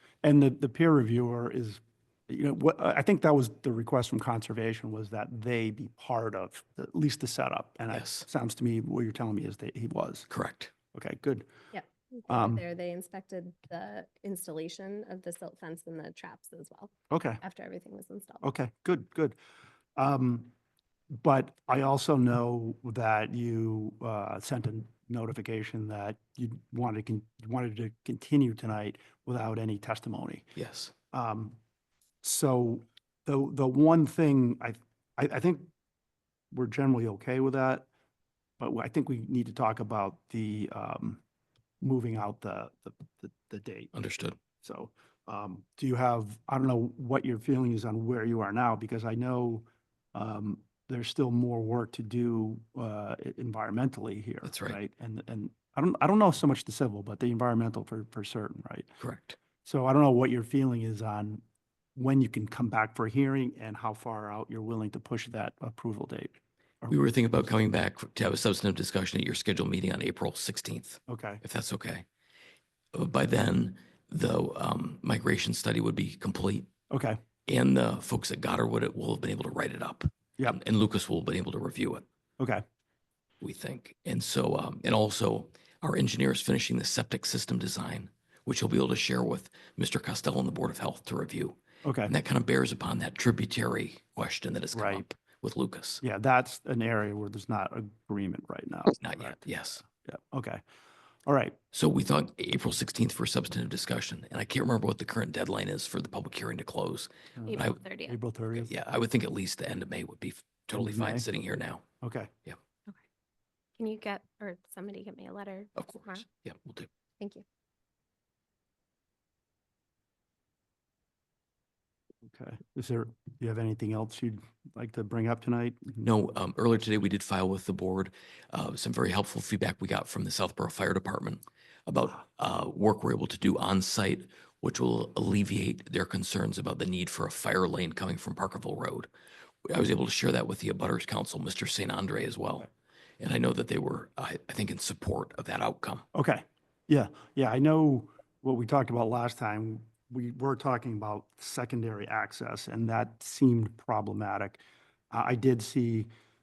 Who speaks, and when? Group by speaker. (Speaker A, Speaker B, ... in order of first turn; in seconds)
Speaker A: 0.2-10.3, 10.9-11.5, 12.3-12.6, 17.1-17.4, 18.4-19.4, 19.9-20.5, 21.1-30.5, 31.1-31.6, 32.2-35.7, 36.5-37.9, 38.6-41.2, 41.8-43.9, 44.6-58.9, 59.6-61.4, 62.0-67.5, 71.1-71.4, 76.9-77.2, 82.4-82.6, 91.8-92.1, 94.7-95.0, 96.0-100.6, 101.2-101.6, 107.4-108.7, 110.7-111.3, 112.0-112.3, 122.2-126.0, 146.1-156.1
Speaker B: 7.9-8.2, 10.3-10.7, 30.6-30.9, 43.9-44.4, 54.4-54.8, 59.0-59.4, 66.9-72.0, 72.9-76.7, 77.5-82.0, 83.4-96.0, 98.9-99.8, 101.7-107.8, 108.5-111.8, 115.8-116.9, 126.0-139.1, 139.7-142.7, 143.2-146.0
Speaker C: 11.7-18.4, 107.5-108.2, 113.8-116.2, 117.2-117.4